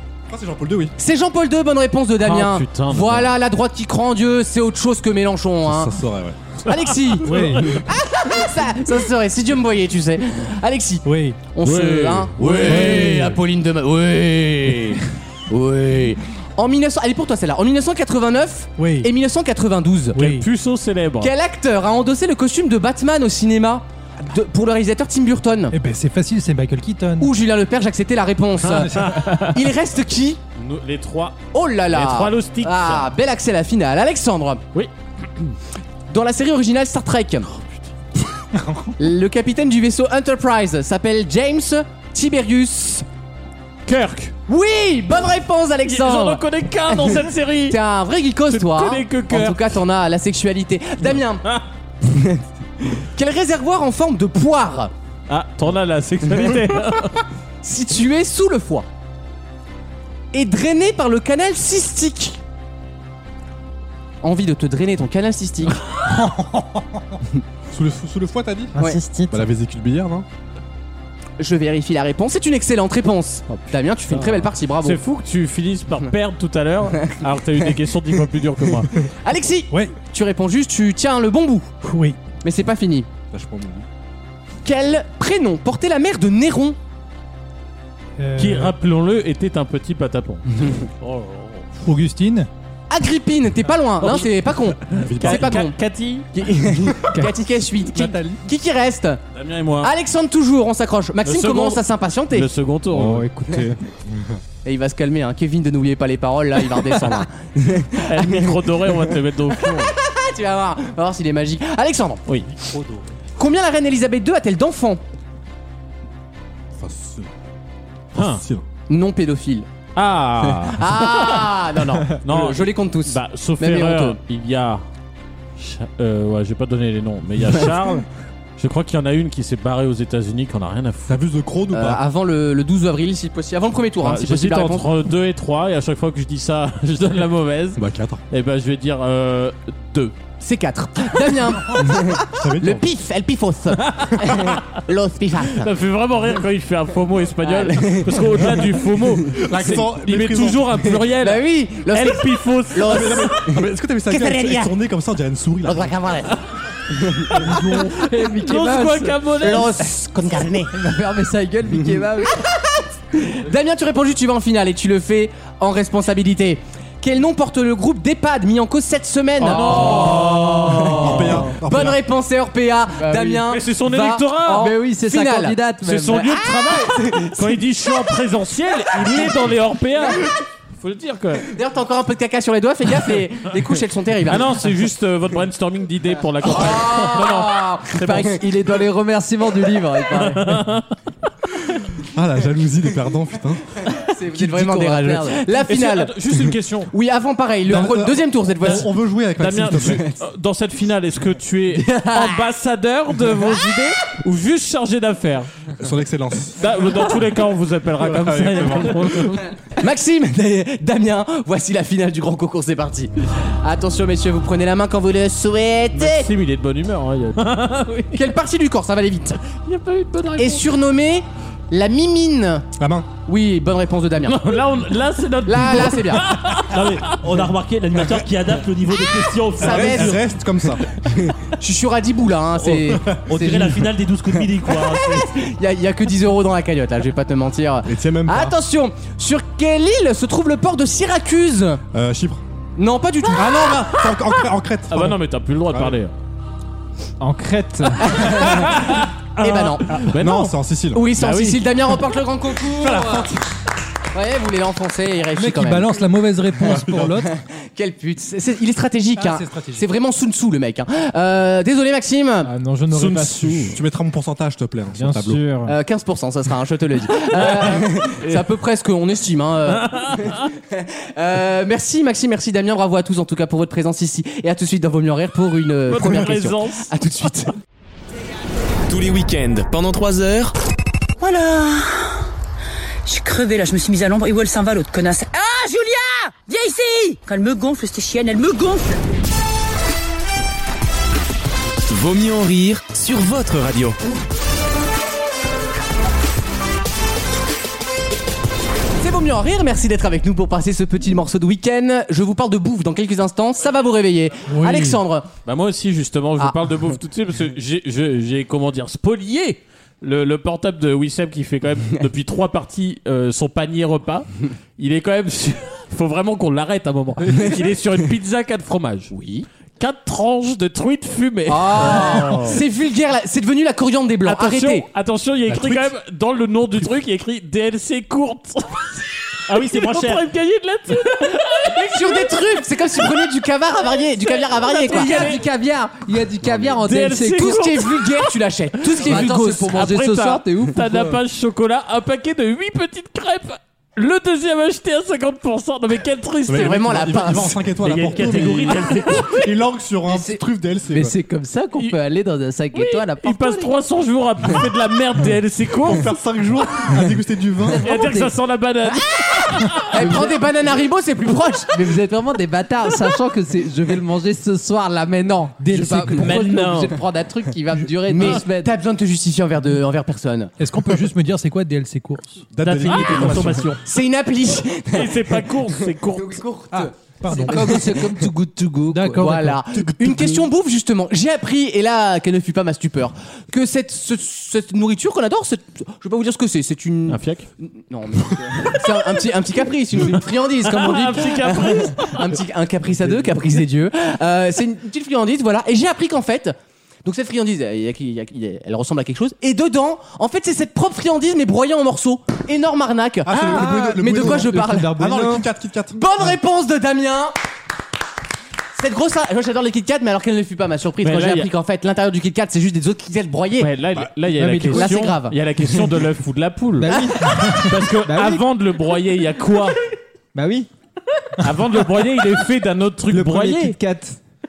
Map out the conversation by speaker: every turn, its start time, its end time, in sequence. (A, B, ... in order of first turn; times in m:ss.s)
0:00.3-0:00.9 A
0:01.0-0:05.9 B
0:02.2-0:03.3 C
0:05.6-0:06.5 A
0:06.6-0:20.3 B
0:07.2-0:07.6 C
0:07.2-0:07.8 D
0:11.0-0:11.4 D
0:11.6-0:13.3 C
0:12.6-0:13.4 D
0:18.8-0:19.1 D
0:20.1-0:20.5 D
0:20.1-0:21.3 C
0:21.2-0:25.7 B
0:25.7-0:27.3 D
0:27.2-0:30.4 B
0:28.6-0:29.4 D
0:30.6-0:31.4 C
0:31.5-0:34.6 B
0:31.9-0:33.1 C
0:34.7-0:35.5 C
0:36.1-0:37.5 B
0:38.5-0:38.9 D
0:39.0-0:43.0 B
0:43.8-0:44.3 C
0:44.5-0:47.2 B
0:45.8-0:47.8 C
0:47.7-0:51.5 B
0:48.5-0:49.8 C
0:53.0-0:54.9 B
0:55.3-0:57.2 C
0:57.6-0:58.8 B
1:00.3-1:02.4 B
1:04.2-1:05.8 B
1:06.0-1:07.0 D
1:07.7-1:08.8 A
1:08.8-1:09.4 E
1:09.3-1:10.2 A
1:11.4-1:15.0 B
1:13.5-1:18.9 C
1:19.2-1:21.8 B
1:21.8-1:22.2 D
1:22.4-1:23.1 B
1:23.3-1:23.8 A
1:24.6-1:26.8 B
1:28.2-1:28.7 D
1:28.4-1:31.6 C
1:31.8-1:32.5 D
1:32.9-1:35.8 B
1:34.0-1:34.3 C
1:34.9-1:35.5 A
1:35.0-1:36.3 C
1:36.3-1:39.2 B
1:37.9-1:38.4 A
1:39.3-1:39.9 C
1:39.8-1:42.5 B
1:41.2-1:43.2 C
1:42.9-1:44.2 E
1:44.6-1:52.2 B
1:48.0-1:49.9 C
1:52.3-1:53.0 C
1:53.4-1:55.0 B
1:56.8-1:57.3 A
1:58.1-1:58.6 A
1:58.1-1:58.4 C
1:58.9-1:59.7 B
2:00.0-2:01.5 C
2:00.7-2:04.2 B
2:02.2-2:04.8 C
2:05.6-2:08.0 C
2:08.6-2:11.2 C
2:11.1-2:12.0 A
2:11.7-2:14.9 B
2:14.0-2:20.1 C
2:17.8-2:18.2 A
2:20.4-2:25.7 B
2:22.4-2:22.8 A
2:23.8-2:24.8 C
2:25.5-2:33.5 C
2:27.4-2:28.3 B
2:29.3-2:31.0 A
2:31.1-2:33.5 B
2:32.8-2:36.1 A
2:34.1-2:34.7 F
2:35.9-2:36.3 F
2:37.3-2:39.8 C
2:37.4-2:39.9 G
2:37.4-2:37.8 A
2:39.4-2:40.7 F
2:40.6-2:42.4 G
2:43.1-2:55.6 B
2:49.4-2:51.1 C
2:49.5-2:50.9 G
2:50.9-2:52.0 A
2:53.0-2:53.4 G
2:53.5-2:54.7 C
2:54.5-2:56.4 G
2:55.8-3:01.5 C
2:56.5-2:57.6 B
3:01.5-3:04.6 B
3:04.3-3:08.4 C
3:06.4-3:08.3 B
3:07.9-3:10.6 G
3:10.2-3:10.9 C
3:12.0-3:13.6 A
3:14.0-3:16.4 B
3:14.3-3:15.5 G
3:15.6-3:16.9 C
3:16.9-3:18.9 B
3:17.7-3:20.0 A
3:19.4-3:25.5 C
3:19.8-3:20.2 B
3:21.8-3:22.4 B
3:25.8-3:26.8 A
3:26.6-3:29.5 C
3:28.0-3:29.3 A
3:29.8-3:36.3 B
3:35.9-3:38.2 C
3:38.1-3:39.4 B
3:39.5-3:40.7 C
3:40.4-3:42.7 B
3:42.8-3:43.1 A
3:43.2-3:44.6 B
3:44.2-3:47.2 C
3:45.4-3:46.4 B
3:46.6-3:50.3 H
3:49.6-3:50.2 B
3:49.6-3:50.8 A
3:51.0-3:53.9 B
3:52.9-3:53.2 A
3:53.1-3:55.3 H
3:54.7-4:01.8 B
3:57.8-3:58.6 A
4:01.9-4:02.4 A
4:02.8-4:03.6 B
4:03.3-4:05.2 A
4:04.9-4:06.1 C
4:05.7-4:06.0 A
4:07.2-4:08.2 E
4:08.1-4:08.9 B
4:08.2-4:10.5 C
4:09.4-4:10.1 B
4:10.0-4:11.1 A
4:10.9-4:13.3 B
4:11.1-4:11.6 C
4:14.1-4:16.0 B
4:15.3-4:17.3 D
4:16.8-4:22.5 B
4:19.2-4:19.8 D
4:22.4-4:23.8 E
4:22.9-4:25.5 A
4:24.9-4:25.8 E
4:25.6-4:37.6 B
4:27.3-4:28.4 C
4:29.7-4:30.4 C
4:35.9-4:36.9 C
4:38.9-4:40.5 I
4:41.2-4:42.2 F
4:43.0-4:49.0 F
4:51.9-4:54.0 I
4:59.0-5:05.3 B
5:04.5-5:05.0 D
5:05.4-5:19.1 C
5:19.1-5:19.5 B
5:19.8-5:22.6 C
5:21.5-5:24.8 B
5:24.2-5:32.3 C
5:29.5-5:30.3 H
5:31.6-5:35.3 B
5:34.2-5:35.4 C
5:34.8-5:37.6 G
5:36.8-5:38.3 C
5:37.4-5:39.7 B
5:38.9-5:46.9 C
5:39.0-5:41.2 G
5:46.5-5:51.1 A
5:46.5-5:47.6 B
5:47.8-5:49.0 H
5:48.7-5:49.5 C
5:50.1-5:53.7 G
5:52.7-5:56.1 C
5:55.8-5:57.8 A
5:57.7-5:58.3 G
5:57.8-6:00.3 C
5:59.9-6:01.8 B
5:59.9-6:00.4 G
6:01.7-6:08.7 G
6:05.6-6:06.4 D
6:06.2-6:06.9 C
6:08.1-6:10.5 B
6:10.6-6:12.4 D
6:12.5-6:13.7 A
6:12.6-6:13.8 H
6:13.8-6:18.0 B
6:14.9-6:16.4 C
6:16.7-6:17.9 D
6:17.3-6:19.3 G
6:18.9-6:19.6 D
6:19.1-6:45.0 B
6:19.7-6:20.4 A
6:27.1-6:27.4 C
6:30.6-6:32.4 C
6:43.2-6:46.0 A
6:43.5-6:45.3 D
6:45.9-6:47.3 B
6:48.8-6:53.7 B
6:51.0-6:51.5 C
6:53.6-6:57.0 C
6:54.3-6:54.8 E
6:54.7-6:55.6 B
6:56.8-6:58.4 E
6:57.6-6:59.8 C
7:00.3-7:00.7 E
7:01.4-7:03.8 C
7:03.1-7:04.2 E